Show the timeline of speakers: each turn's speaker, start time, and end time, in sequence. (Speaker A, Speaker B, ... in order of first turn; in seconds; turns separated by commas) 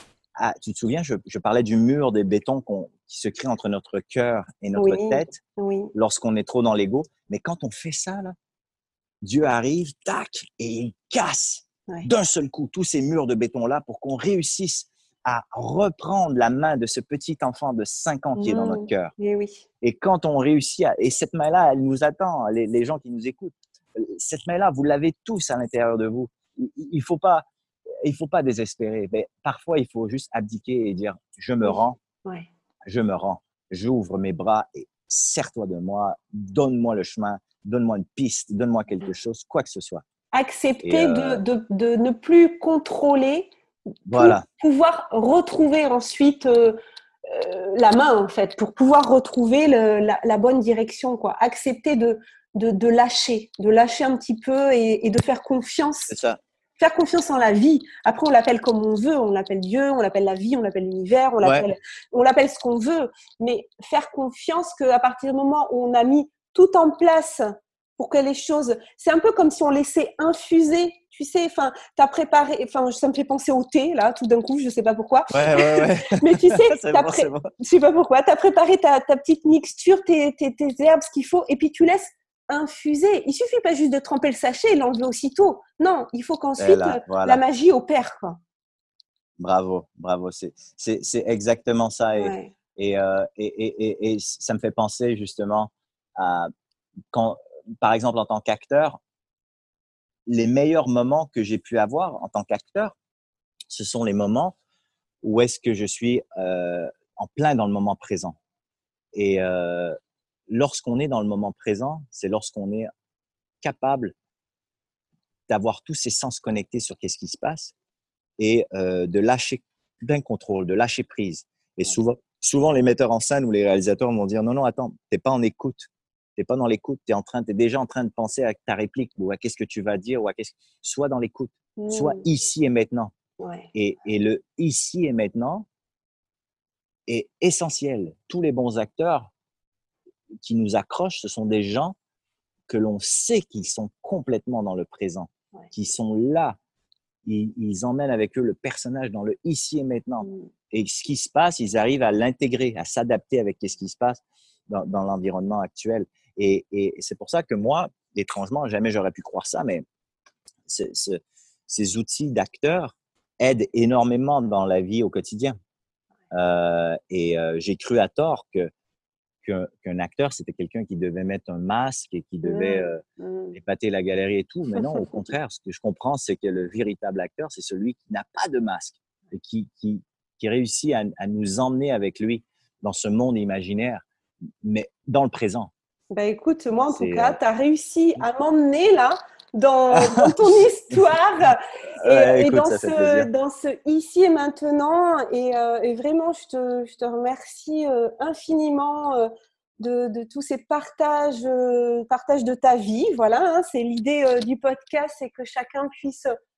Speaker A: 0.3-5.4, Speaker B: 4.8-5.9, Speaker A: 5.9-8.3, Speaker A: 9.2-19.1, Speaker B: 18.4-19.6, Speaker A: 19.8-27.4, Speaker A: 28.0-32.0, Speaker B: 31.6-32.5, Speaker A: 32.9-40.0, Speaker B: 40.3-43.5, Speaker A: 40.8-41.4, Speaker A: 44.1-44.4, Speaker B: 44.1-56.1, Speaker A: 56.1-56.4, Speaker B: 56.8-88.4, Speaker A: 75.3-77.5, Speaker A: 86.6-87.4, Speaker A: 89.4-96.5, Speaker B: 92.1-92.5, Speaker A: 97.1-99.0, Speaker A: 100.2-103.0, Speaker A: 103.7-104.5, Speaker A: 105.2-108.4, Speaker A: 109.1-109.9, Speaker A: 110.5-112.9, Speaker A: 113.6-114.1, Speaker A: 115.5-117.7, Speaker A: 118.4-133.1, Speaker B: 131.8-132.2, Speaker B: 133.4-133.7, Speaker A: 133.7-135.7, Speaker A: 137.1-139.3, Speaker A: 140.4-141.9, Speaker A: 142.7-146.6, Speaker A: 147.2-159.8, Speaker B: 150.2-150.5, Speaker A: 160.7-165.6, Speaker A: 166.3-168.7, Speaker A: 169.4-173.0, Speaker B: 172.4-173.6, Speaker A: 173.5-184.0, Speaker B: 174.7-175.3, Speaker A: 184.6-185.7, Speaker B: 186.1-206.3, Speaker A: 186.9-187.4, Speaker A: 189.9-190.3, Speaker A: 192.0-193.3